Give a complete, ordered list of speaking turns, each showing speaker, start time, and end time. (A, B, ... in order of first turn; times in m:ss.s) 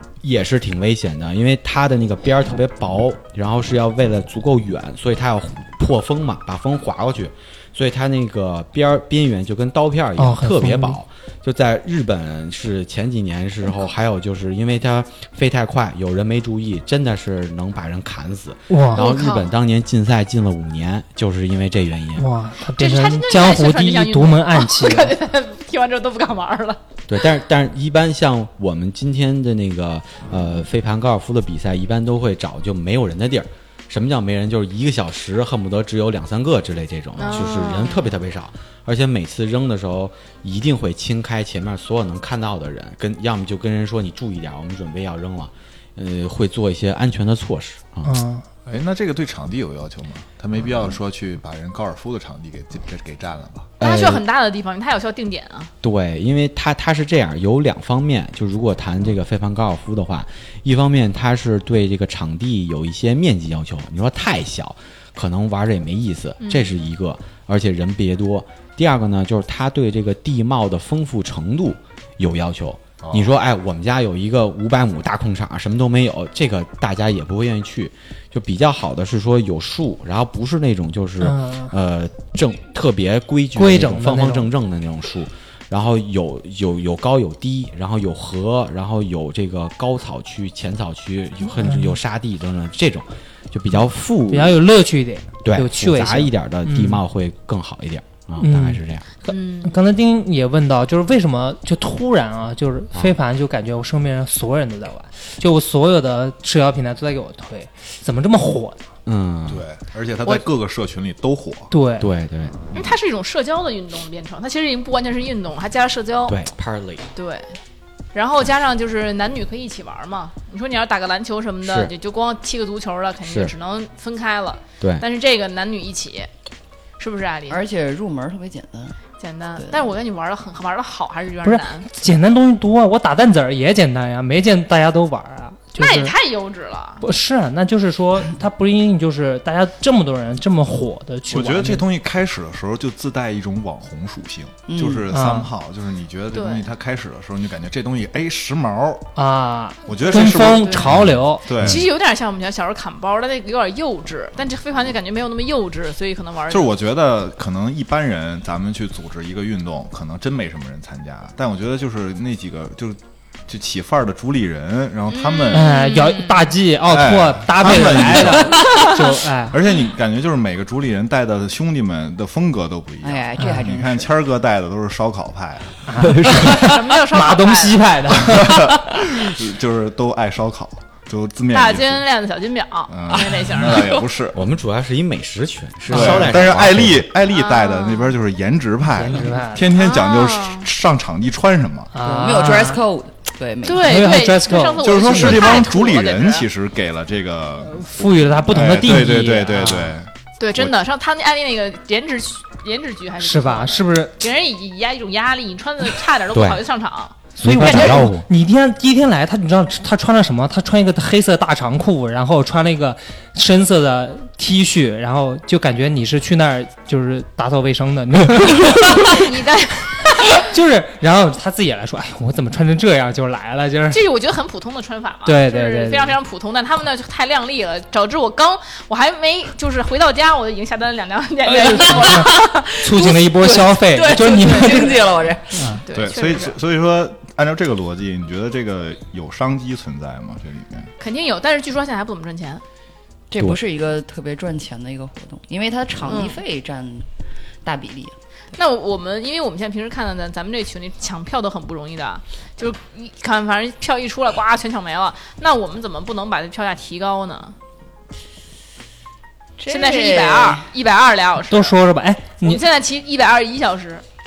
0:00.2-0:22.3 A
0:10.2-0:11.0 B
0:18.7-0:19.0 B
0:19.0-0:19.5 C
0:22.2-0:25.1 B
0:22.8-0:26.8 C
0:27.1-0:48.1 A
0:37.2-0:38.1 C
0:48.0-0:48.4 B
0:48.6-0:53.7 D
0:53.8-0:54.2 A
0:53.8-0:55.7 C
0:55.8-1:34.6 A
1:06.4-1:06.7 C
1:13.0-1:13.3 D
1:21.2-1:21.7 B
1:23.6-1:24.5 B
1:31.6-1:32.0 B
1:34.3-1:37.0 B
1:35.4-1:39.0 A
1:38.4-1:48.8 B
1:39.3-1:39.8 C
1:49.0-1:49.6 A
1:49.5-1:51.7 D
1:51.7-1:52.1 B
1:52.0-1:52.6 A
1:52.7-1:56.4 C
1:56.3-1:57.1 A
1:57.2-1:57.6 C
1:58.1-2:06.3 C
2:01.6-2:01.9 A
2:03.2-2:03.5 A
2:04.8-2:05.0 A
2:07.0-2:07.6 C
2:07.5-2:09.0 E
2:09.2-2:11.8 C
2:09.6-2:09.9 E
2:11.4-2:16.1 B
2:15.8-2:17.0 C
2:17.0-2:21.8 B
2:21.3-2:29.0 D
2:24.7-2:25.1 E
2:25.1-2:25.5 B
2:26.3-2:26.7 C
2:29.2-2:31.7 B
2:29.8-2:31.9 D
2:30.0-2:30.9 C
2:31.6-2:36.7 C
2:36.5-2:45.8 D
2:45.1-2:46.5 C
2:45.5-2:49.6 B
2:46.9-2:48.9 D
2:49.5-2:55.8 D
2:53.0-2:54.1 E
2:53.4-2:53.6 B
2:55.9-2:59.0 B
2:56.5-2:57.8 C
2:58.2-3:02.0 D
3:01.5-3:04.1 C
3:02.9-3:04.4 D
3:04.3-3:07.1 A
3:05.9-3:11.9 D
3:05.9-3:06.3 B
3:07.3-3:08.2 C
3:09.0-3:09.7 B
3:09.7-3:10.7 C
3:11.9-3:12.8 B
3:12.0-3:14.2 E
3:13.6-3:16.5 C
3:13.8-3:15.6 B
3:14.8-3:20.7 D
3:17.6-3:19.9 B
3:20.4-3:28.1 C
3:23.2-3:24.2 B
3:26.3-3:26.6 A
3:27.4-3:28.2 A
3:27.4-3:39.3 B
3:38.7-3:40.4 C
3:40.3-3:44.0 B
3:43.9-3:52.7 C
3:45.2-3:46.2 B
3:51.5-3:55.8 E
3:51.7-3:55.8 B
3:54.1-3:55.0 C
3:55.8-3:56.6 C
3:55.9-4:00.9 D
4:01.0-4:02.6 C
4:03.3-4:07.1 E
4:06.1-4:06.4 C
4:07.6-4:08.1 E
4:08.6-4:17.5 C
4:19.6-4:20.7 E
4:19.7-4:21.8 C
4:21.5-4:22.6 B
4:22.4-4:24.0 C